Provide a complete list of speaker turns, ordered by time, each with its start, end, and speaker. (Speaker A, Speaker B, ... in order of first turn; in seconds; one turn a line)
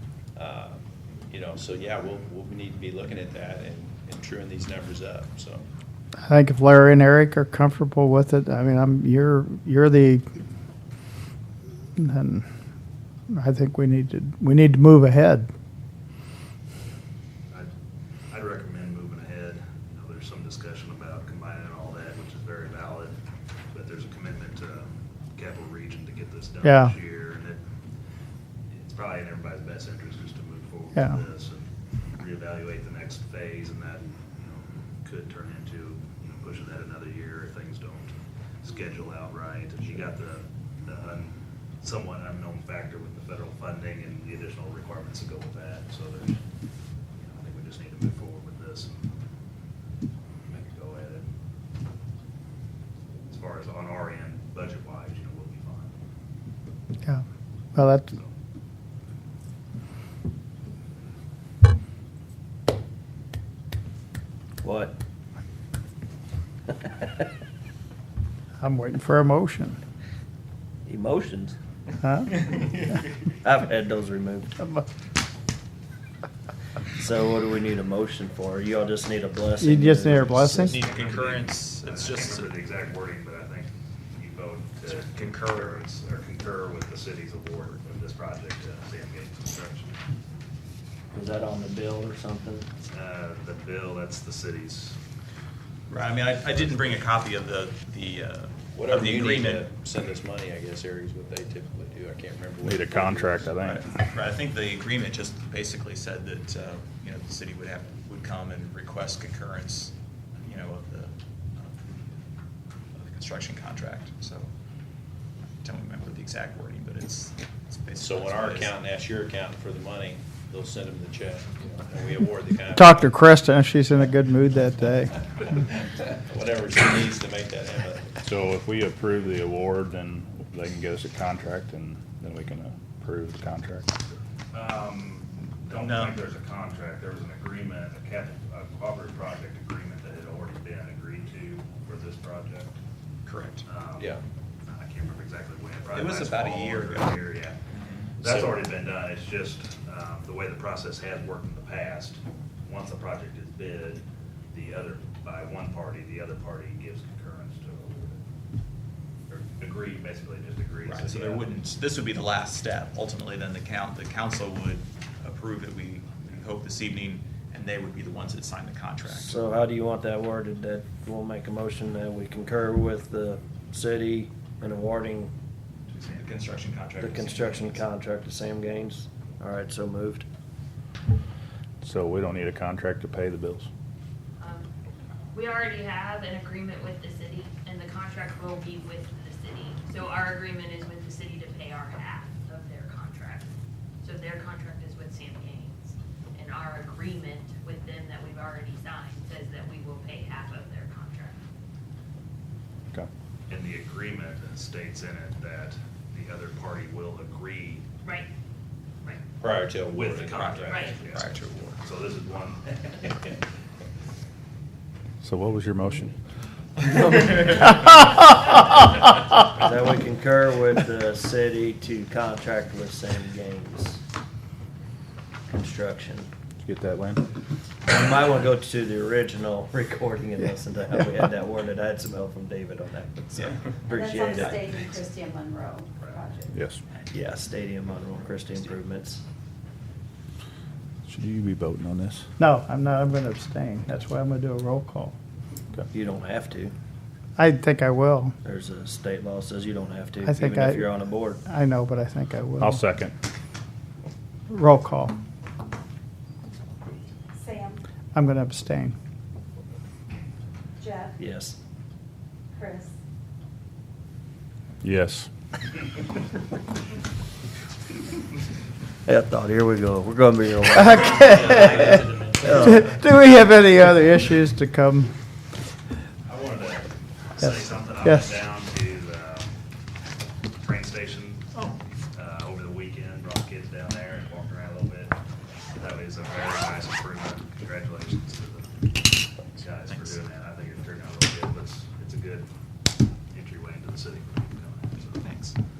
Speaker A: 0.3-5.7
Speaker B: 6.3-10.2
Speaker B: 12.0-12.4
Speaker B: 13.3-15.5
Speaker C: 18.3-23.1
Speaker C: 23.7-27.6
Speaker B: 26.6-26.9
Speaker C: 28.7-46.4
Speaker C: 47.2-49.0
Speaker C: 50.4-51.3
Speaker C: 53.2-55.9
Speaker B: 57.7-58.1
Speaker D: 64.6-65.0
Speaker B: 68.6-69.8
Speaker D: 70.8-71.6
Speaker B: 72.0-72.3
Speaker D: 73.4-74.5
Speaker D: 77.0-80.8
Speaker B: 79.6-80.8
Speaker C: 80.6-90.0
Speaker E: 80.7-82.5
Speaker E: 84.8-85.8
Speaker D: 91.1-92.7
Speaker C: 92.8-95.0
Speaker E: 95.9-99.7
Speaker C: 96.6-97.0
Speaker A: 98.7-103.5
Speaker F: 102.6-103.9
Speaker E: 103.6-112.1
Speaker E: 112.9-114.5
Speaker E: 115.6-118.7
Speaker A: 118.0-123.1
Speaker B: 122.7-125.1
Speaker A: 126.0-128.1
Speaker F: 128.2-133.8
Speaker C: 134.5-142.8
Speaker E: 135.7-136.2
Speaker E: 143.2-143.6
Speaker C: 143.6-144.2
Speaker C: 144.7-147.6
Speaker E: 145.9-148.6
Speaker C: 148.1-158.2
Speaker C: 159.3-161.6
Speaker E: 160.8-169.5
Speaker D: 169.0-175.3
Speaker E: 175.9-177.8
Speaker D: 177.0-180.2
Speaker F: 181.8-183.7
Speaker G: 184.4-184.7
Speaker G: 185.3-193.5
Speaker G: 194.0-201.4
Speaker C: 203.5-207.8
Speaker A: 209.4-210.4
Speaker C: 209.8-213.3
Speaker E: 210.3-211.8
Speaker G: 210.7-211.0
Speaker F: 215.2-216.1
Speaker D: 219.6-224.0
Speaker D: 225.5-226.3
Speaker F: 226.6-227.3
Speaker D: 227.9-234.9
Speaker C: 233.5-233.8
Speaker H: 233.9-236.4
Speaker C: 234.7-235.2
Speaker C: 235.9-236.3
Speaker F: 236.5-236.8
Speaker D: 237.1-239.2
Speaker F: 241.1-242.3
Speaker B: 242.4-245.1
Speaker D: 245.9-246.7
Speaker B: 247.4-248.3
Speaker D: 248.4-251.4
Speaker B: 250.2-252.8
Speaker F: 252.6-253.1
Speaker B: 254.5-255.1
Speaker H: 257.4-257.8
Speaker B: 258.1-258.9
Speaker H: 260.8-261.1
Speaker D: 261.2-261.6
Speaker H: 262.6-262.9
Speaker F: 264.8-265.3
Speaker D: 269.1-272.8
Speaker B: 270.7-275.1
Speaker A: 271.0-273.0
Speaker C: 276.2-279.5
Speaker B: 278.0-278.3
Speaker C: 280.6-281.6
Speaker C: 282.1-285.1
Speaker C: 285.8-288.9
Speaker E: 289.6-290.2
Speaker C: 289.6-292.5
Speaker C: 293.3-295.3
Speaker E: 295.2-295.6